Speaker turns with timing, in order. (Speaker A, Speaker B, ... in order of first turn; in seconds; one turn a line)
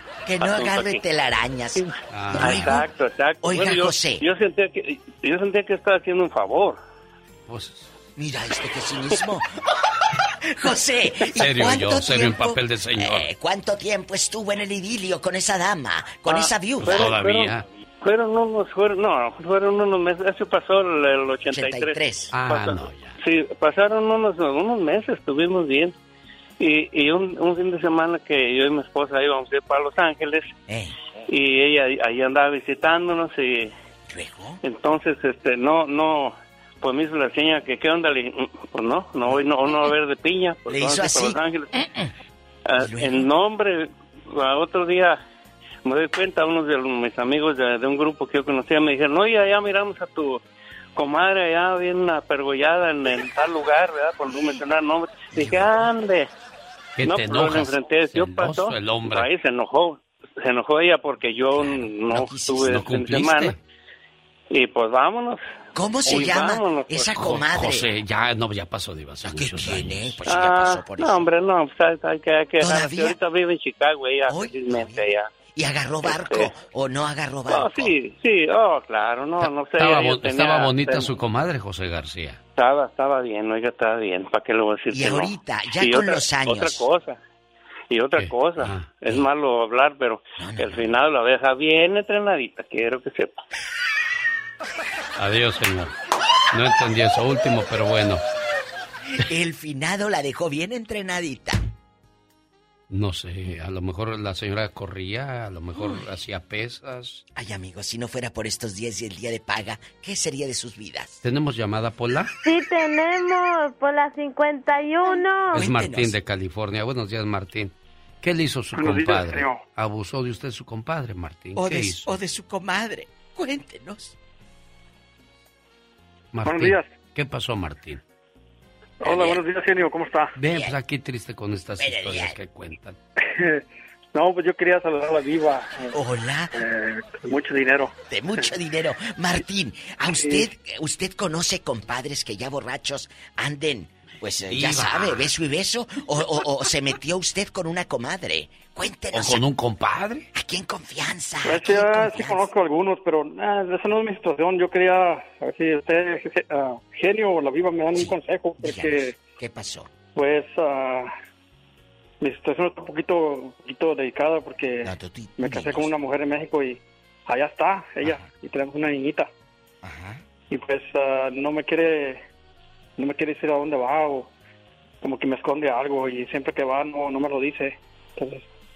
Speaker A: 0.2-4.2
Speaker B: 0.4-1.0
Speaker C: 2.1-2.7
Speaker B: 2.4-6.8
Speaker C: 7.5-7.9
Speaker A: 8.2-9.5
Speaker A: 10.4-17.2
Speaker C: 11.4-13.3
Speaker B: 16.3-25.9
Speaker C: 16.8-17.6
Speaker A: 21.5-22.3
Speaker C: 22.3-23.1
Speaker B: 26.6-30.5
Speaker A: 30.7-30.9
Speaker B: 31.3-33.7
Speaker A: 34.1-34.6
Speaker B: 34.6-41.7
Speaker A: 39.3-39.9
Speaker A: 40.7-42.1
Speaker B: 42.7-45.2
Speaker A: 42.8-43.3
Speaker B: 45.8-50.4
Speaker B: 51.0-56.3
Speaker A: 55.3-55.7
Speaker C: 57.0-59.3
Speaker B: 57.0-63.5
Speaker C: 61.6-61.9
Speaker A: 62.1-62.8
Speaker C: 62.6-63.6
Speaker B: 64.5-65.4
Speaker A: 65.7-67.9
Speaker B: 66.0-67.3
Speaker C: 67.2-70.4
Speaker A: 69.2-71.2
Speaker B: 70.3-75.3
Speaker A: 72.6-73.2
Speaker A: 74.2-77.9
Speaker B: 76.1-76.5
Speaker B: 77.5-81.1
Speaker C: 79.4-82.4
Speaker B: 82.5-87.2
Speaker A: 84.9-86.8
Speaker B: 87.9-93.3
Speaker C: 88.2-89.2
Speaker A: 90.4-90.9
Speaker C: 95.2-95.9
Speaker C: 96.5-98.2
Speaker A: 99.2-101.6
Speaker C: 102.9-107.2
Speaker A: 105.8-106.0
Speaker A: 107.3-111.2
Speaker C: 111.2-112.3
Speaker D: 112.7-114.7
Speaker A: 115.0-116.2
Speaker C: 115.5-122.1
Speaker E: 118.7-119.6
Speaker A: 121.5-124.1
Speaker C: 126.3-128.0
Speaker E: 126.4-126.9
Speaker E: 129.0-130.3
Speaker A: 129.0-129.4
Speaker C: 130.3-133.0
Speaker A: 130.4-130.8
Speaker A: 131.8-132.3
Speaker E: 133.2-135.9
Speaker A: 135.9-136.5
Speaker E: 136.5-138.5
Speaker A: 138.1-149.4
Speaker E: 140.1-140.4
Speaker C: 144.5-145.3
Speaker C: 149.1-150.2
Speaker A: 150.3-152.5
Speaker E: 151.4-159.2
Speaker A: 157.9-159.9
Speaker E: 160.1-161.1
Speaker E: 162.2-169.3
Speaker A: 164.8-165.9
Speaker A: 168.0-168.3
Speaker A: 169.8-170.2
Speaker E: 170.5-172.2
Speaker E: 173.0-174.3
Speaker E: 175.0-178.4